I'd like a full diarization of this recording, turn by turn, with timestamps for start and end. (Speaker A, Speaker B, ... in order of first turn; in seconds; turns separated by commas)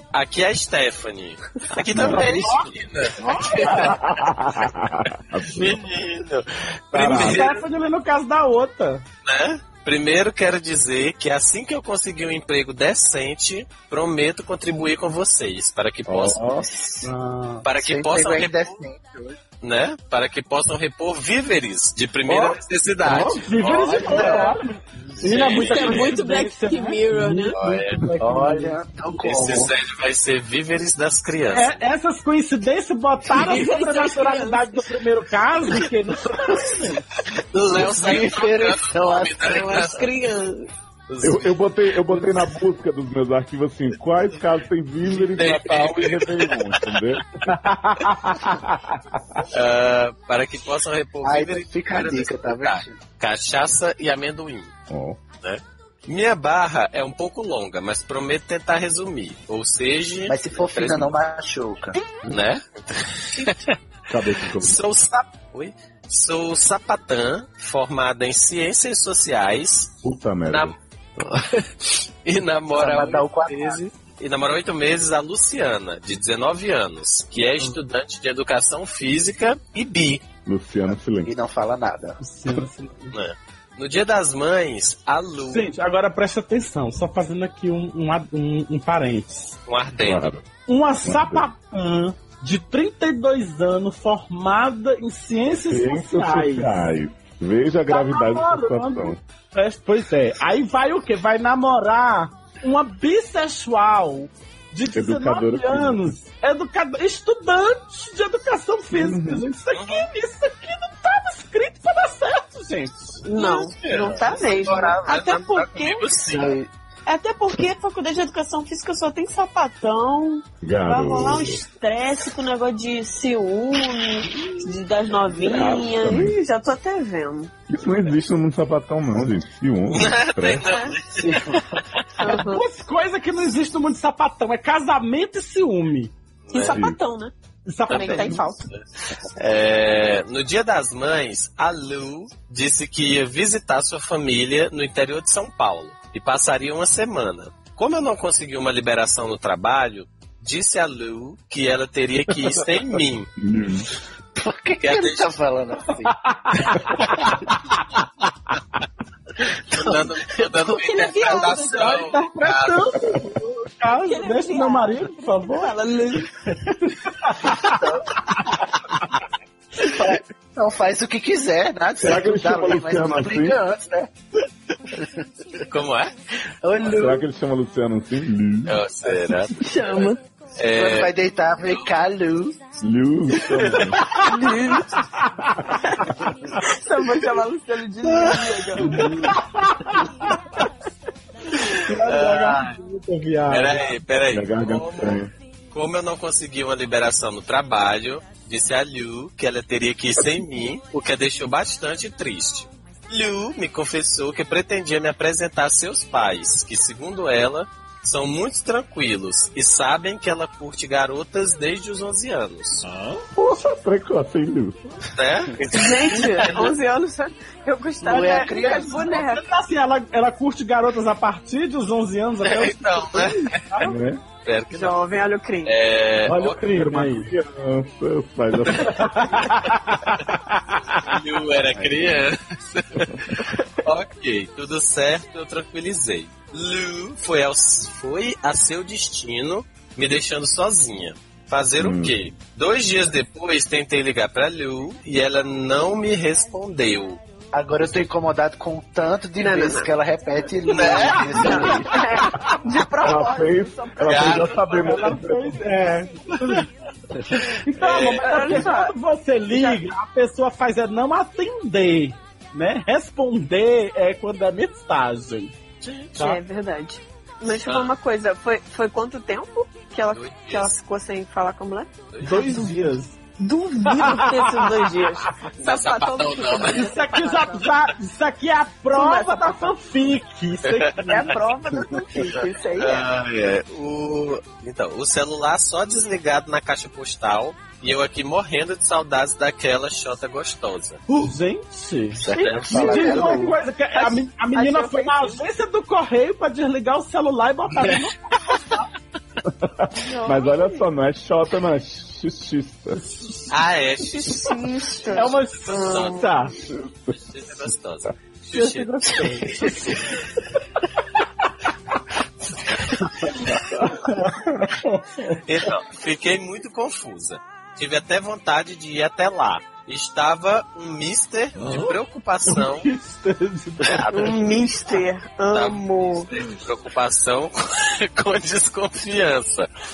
Speaker A: 0.1-3.9, Speaker B: 1.9-2.3, Speaker C: 2.0-2.4, Speaker D: 2.1-4.0, Speaker B: 3.6-5.8, Speaker A: 5.5-7.6, Speaker B: 6.9-7.5, Speaker D: 7.0-9.0, Speaker A: 9.2-16.8, Speaker B: 16.1-16.7, Speaker D: 17.0-17.6, Speaker A: 17.6-18.8, Speaker C: 17.8-19.4, Speaker A: 19.6-24.4, Speaker D: 22.2-28.8, Speaker C: 23.7-24.6, Speaker A: 25.2-26.2, Speaker E: 25.4-27.6, Speaker A: 27.6-28.0, Speaker C: 28.2-29.7, Speaker A: 29.2-31.7, Speaker D: 31.5-37.0, Speaker E: 33.3-34.7, Speaker A: 37.5-40.1, Speaker C: 37.7-40.0, Speaker E: 39.5-40.7, Speaker A: 41.1-41.6, Speaker B: 41.2-47.5, Speaker A: 45.2-47.0, Speaker D: 47.5-48.8, Speaker A: 49.5-54.7, Speaker C: 51.2-53.0, Speaker B: 54.9-55.2, Speaker A: 55.4-61.1, Speaker C: 60.3-62.0, Speaker A: 62.3-63.7, Speaker B: 64.1-64.8, Speaker A: 64.4-69.9, Speaker B: 70.0-70.8, Speaker A: 70.5-80.2, Speaker C: 72.8-73.8, Speaker B: 80.5-81.3, Speaker C: 81.2-82.2, Speaker D: 82.2-83.1, Speaker A: 83.1-85.7, Speaker D: 85.5-89.5, Speaker A: 89.7-90.3, Speaker B: 90.0-90.4, Speaker D: 90.7-96.7, Speaker B: 91.0-91.5, Speaker B: 95.6-99.2, Speaker D: 97.9-113.2, Speaker B: 104.9-106.1, Speaker B: 108.9-109.4, Speaker A: 109.7-110.1, Speaker E: 113.2-116.1, Speaker A: 113.3-116.6, Speaker C: 116.3-116.7, Speaker E: 117.0-127.5, Speaker B: 120.6-121.6, Speaker B: 125.5-126.3, Speaker B: 127.7-130.7, Speaker A: 129.9-131.8, Speaker E: 130.7-130.9, Speaker C: 131.2-131.8, Speaker E: 132.2-132.6, Speaker D: 132.2-136.1, Speaker A: 136.5-136.8, Speaker E: 136.5-137.3, Speaker B: 136.7-137.0, Speaker D: 137.7-138.7, Speaker E: 137.9-138.6, Speaker A: 137.9-138.8, Speaker A: 139.3-153.3, Speaker B: 153.4-153.9, Speaker C: 154.3-156.1, Speaker A: 154.8-155.3, Speaker D: 156.1-157.3, Speaker A: 159.7-162.9, Speaker E: 160.7-162.2, Speaker D: 161.4-165.8, Speaker E: 163.9-166.3, Speaker D: 166.5-167.8, Speaker C: 167.5-168.2, Speaker C: 169.8-174.1, Speaker B: 172.0-173.6, Speaker C: 174.9-175.2, Speaker A: 175.7-176.1, Speaker C: 176.6-177.2, Speaker B: 176.8-178.8, Speaker A: 178.7-181.1, Speaker C: 179.1-179.3, Speaker E: 179.6-180.2, Speaker C: 180.7-182.6, Speaker B: 182.8-184.0, Speaker A: 183.4-183.8, Speaker E: 184.2-185.0, Speaker D: 185.1-185.7, Speaker E: 185.8-189.2, Speaker D: 188.2-190.4, Speaker D: 191.7-193.9, Speaker A: 192.0-192.8, Speaker A: 193.5-195.2, Speaker B: 194.3-195.3, Speaker A: 195.7-212.8, Speaker D: 212.9-213.2, Speaker B: 213.3-214.8, Speaker A: 215.1-216.7, Speaker E: 215.7-219.4, Speaker C: 218.0-219.1, Speaker D: 218.0-223.9, Speaker A: 222.4-223.6, Speaker B: 223.8-224.2, Speaker A: 224.4-225.0, Speaker E: 224.7-225.8, Speaker A: 225.6-226.6, Speaker D: 226.2-227.3, Speaker B: 226.7-229.4, Speaker D: 228.8-231.2, Speaker A: 231.0-247.2, Speaker B: 241.8-242.2, Speaker C: 247.5-252.0, Speaker E: 249.4-249.9, Speaker A: 250.7-251.6, Speaker E: 251.3-254.8, Speaker D: 251.5-252.5, Speaker B: 253.0-255.6, Speaker A: 254.0-254.7, Speaker D: 254.7-256.6, Speaker D: 257.3-265.5, Speaker A: 257.8-258.4, Speaker E: 257.8-258.9, Speaker E: 259.5-259.8, Speaker E: 266.1-271.9, Speaker A: 267.5-267.9, Speaker A: 270.1-270.7, Speaker A: 272.1-272.6, Speaker D: 272.2-273.2, Speaker E: 272.5-272.8, Speaker E: 273.4-277.7, Speaker D: 273.9-274.9, Speaker A: 275.6-276.9, Speaker D: 276.7-281.4, Speaker E: 278.9-279.7, Speaker A: 280.6-281.2, Speaker E: 281.1-283.1, Speaker A: 282.8-291.0, Speaker D: 291.1-298.9, Speaker C: 292.2-293.6, Speaker A: 292.3-293.0, Speaker E: 292.7-295.4, Speaker B: 299.4-303.0, Speaker E: 300.0-300.8, Speaker A: 303.5-306.3, Speaker E: 304.0-306.3, Speaker D: 305.1-306.5, Speaker B: 306.7-307.2, Speaker A: 307.3-309.6, Speaker D: 308.5-310.1, Speaker D: 313.0-315.4, Speaker A: 315.4-322.9, Speaker D: 321.6-324.1, Speaker A: 323.8-324.7, Speaker E: 324.1-326.3, Speaker A: 325.5-329.7